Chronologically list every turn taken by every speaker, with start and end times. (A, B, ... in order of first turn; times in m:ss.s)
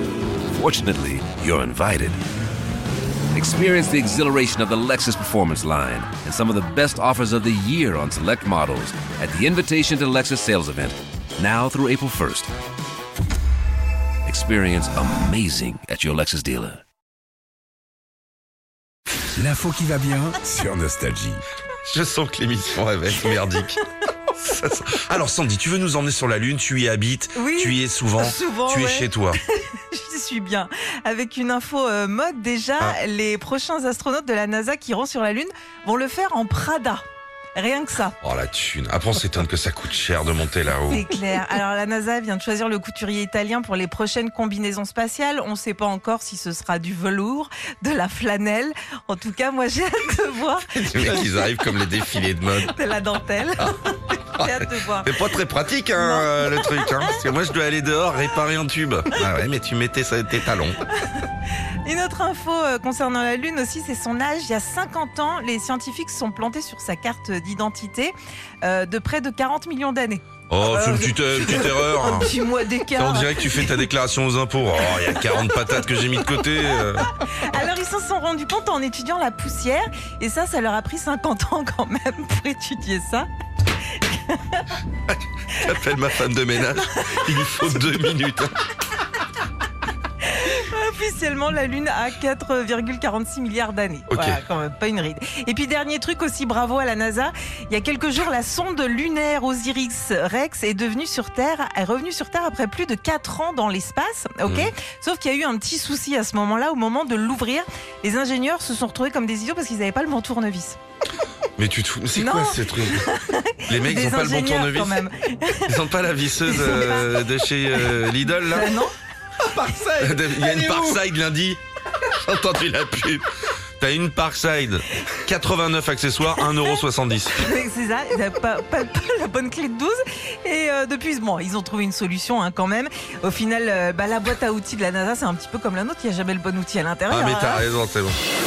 0:00.5-0:02.2 A
0:03.3-0:12.5 A
0:14.2-0:16.8 A
0:19.3-0:21.4 B
0:21.9-0:23.8 C
0:24.4-0:29.4 C
0:27.3-0:37.0 D
0:37.6-0:38.2 D
0:38.2-0:41.0 C
0:40.8-0:51.5 D
0:50.8-0:52.7 C
0:52.6-0:55.3 D
0:54.4-1:00.8 C
0:55.9-0:57.1 D
1:01.0-1:01.3 D
1:01.8-1:13.8 D
1:10.5-1:12.3 C
1:12.9-1:17.1 C
1:14.8-1:16.0 D
1:17.0-1:23.3 D
1:23.9-1:24.7 D
1:25.1-1:28.5 C
1:25.6-1:25.9 D
1:26.6-1:27.8 D
1:30.2-1:50.8 D
1:34.1-1:34.4 C
1:44.4-1:44.7 C
1:51.6-1:53.0 C
1:52.1-1:55.8 D
1:53.6-1:55.0 C
1:55.7-1:58.8 C
1:56.4-1:58.9 D
2:00.0-2:03.2 C
2:03.8-2:07.4 C
2:07.4-2:17.6 D
2:17.1-2:18.2 C